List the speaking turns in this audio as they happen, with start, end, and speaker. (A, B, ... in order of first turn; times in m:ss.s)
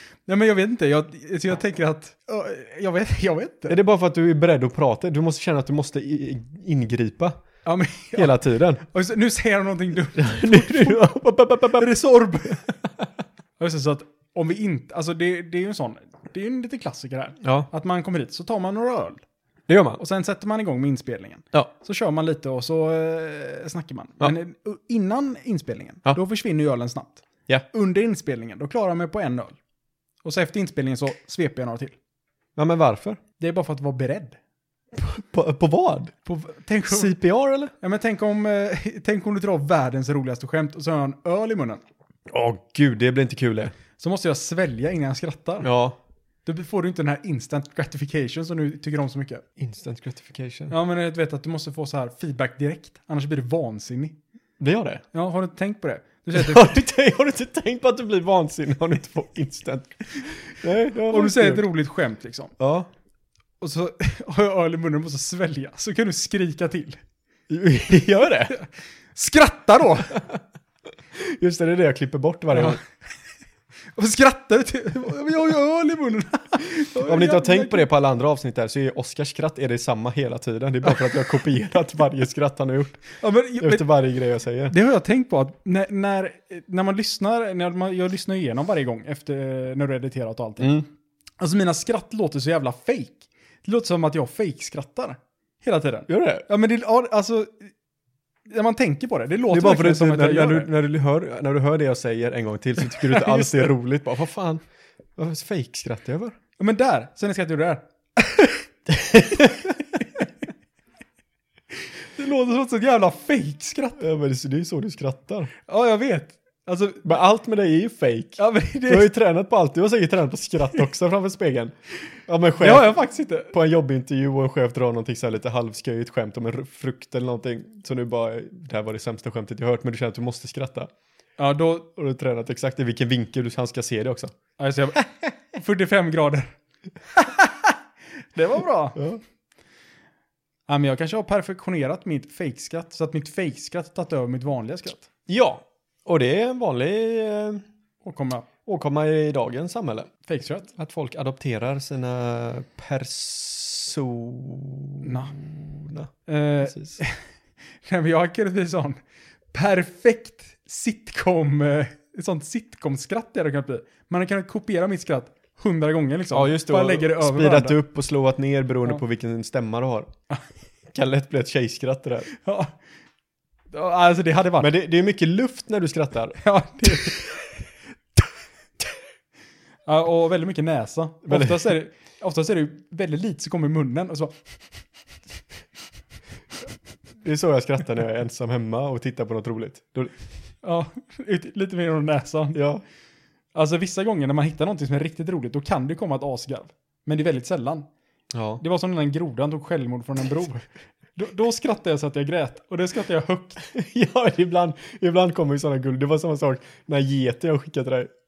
0:00.3-0:03.8 A
0:03.7-0:07.4 B
0:07.6-0:11.2 A
0:08.2-0:08.8 B
0:10.2-0:11.9 B
0:11.7-0:12.7 A
0:13.6-0:19.2 A
0:17.4-0:17.7 B
0:19.7-0:20.0 B
0:20.0-0:29.6 A
0:30.2-0:32.0 A
0:32.6-0:33.2 B
0:33.4-0:34.4 A
0:34.9-0:36.1 B
0:36.3-0:37.1 A
0:36.9-0:37.7 B
0:37.8-0:41.8 A
0:42.3-0:43.7 B
0:44.0-0:45.7 A
0:45.6-0:46.0 B
0:46.5-0:49.4 A
0:49.6-0:50.7 B
0:50.7-0:54.2 A
0:54.6-0:55.0 B
0:55.1-0:56.8 A
0:56.3-1:01.7 B
1:01.0-1:02.5 A
1:02.6-1:02.9 B
1:03.6-1:07.0 A
1:07.5-1:08.6 B
1:08.5-1:10.2 A
1:11.1-1:12.8 B
1:12.5-1:12.8 A
1:14.0-1:17.9 A
1:17.0-1:23.1 B
1:23.2-1:23.9 A
1:23.6-1:24.7 B
1:24.7-1:30.8 A
1:30.6-1:30.9 B
1:31.4-1:37.7 A
1:36.1-1:36.5 B
1:38.5-1:40.7 A
1:39.5-1:44.6 B
1:43.0-1:43.6 A
1:45.2-1:46.4 B
1:46.6-1:50.2 A
1:48.9-1:49.8 B
1:52.2-1:54.0 A
1:54.0-1:55.5 B
1:55.7-1:57.1 A
1:57.0-2:01.8 B
1:58.4-1:59.1 A
2:02.3-2:03.0 B
2:02.6-2:03.5 A
2:03.5-2:10.9 B
2:11.4-2:11.9 A
2:12.0-2:14.4 B
2:14.6-2:16.5 A
2:17.2-2:17.8 A
2:18.3-2:19.0 A
2:20.7-2:25.1 A
2:25.3-2:27.6 B
2:28.0-2:28.5 A
2:28.7-2:30.1 B
2:30.3-2:30.7 A
2:30.7-2:36.1 B
2:35.0-2:35.4 A
2:36.3-2:37.2 A
2:36.6-2:37.0 B
2:37.8-2:39.0 A
2:39.5-2:47.8 A
2:46.3-2:50.1 B
2:50.9-2:52.3 B
2:52.3-2:52.7 A
2:53.7-2:54.7 A
2:54.6-2:57.2 B
2:56.4-2:57.5 A
2:59.9-3:04.4 A
3:01.3-3:01.7 B
3:07.2-3:10.1 B
3:10.6-3:12.6 A
3:12.5-3:12.8 B
3:13.5-3:17.9 A
3:18.3-3:18.6 B
3:18.6-3:23.6 A
3:23.6-3:28.1 B